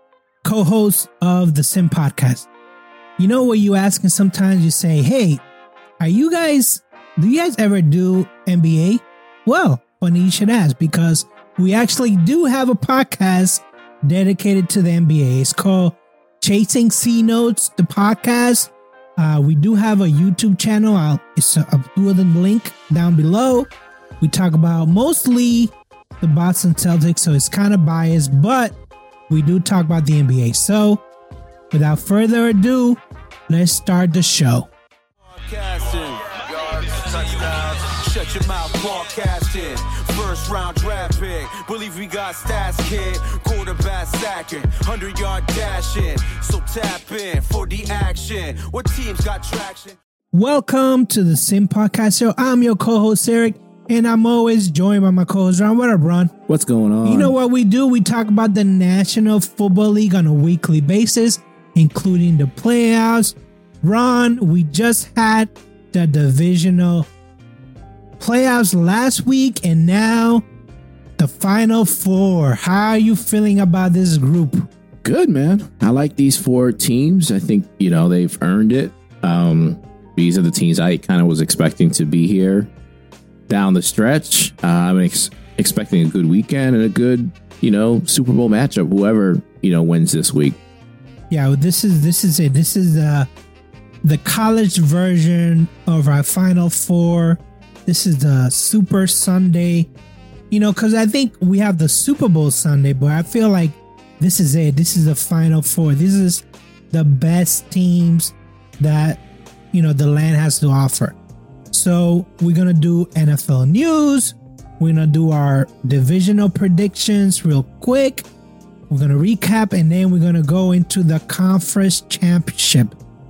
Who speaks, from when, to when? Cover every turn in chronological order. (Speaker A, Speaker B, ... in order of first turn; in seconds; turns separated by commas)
Speaker A: 0.4-2.5, Speaker A: 3.2-5.4, Speaker A: 6.0-23.7, Speaker A: 24.2-28.8, Speaker A: 29.3-31.0, Speaker A: 31.7-34.7, Speaker B: 35.3-50.0, Speaker A: 50.3-56.3, Speaker C: 56.5-57.3, Speaker A: 57.0-67.1, Speaker A: 68.2-70.4, Speaker A: 71.2-74.7, Speaker C: 75.0-82.7, Speaker C: 83.5-90.6, Speaker A: 91.3-93.3, Speaker A: 94.0-99.9, Speaker A: 100.5-109.2, Speaker A: 109.7-111.2, Speaker A: 111.7-118.3, Speaker A: 118.9-123.0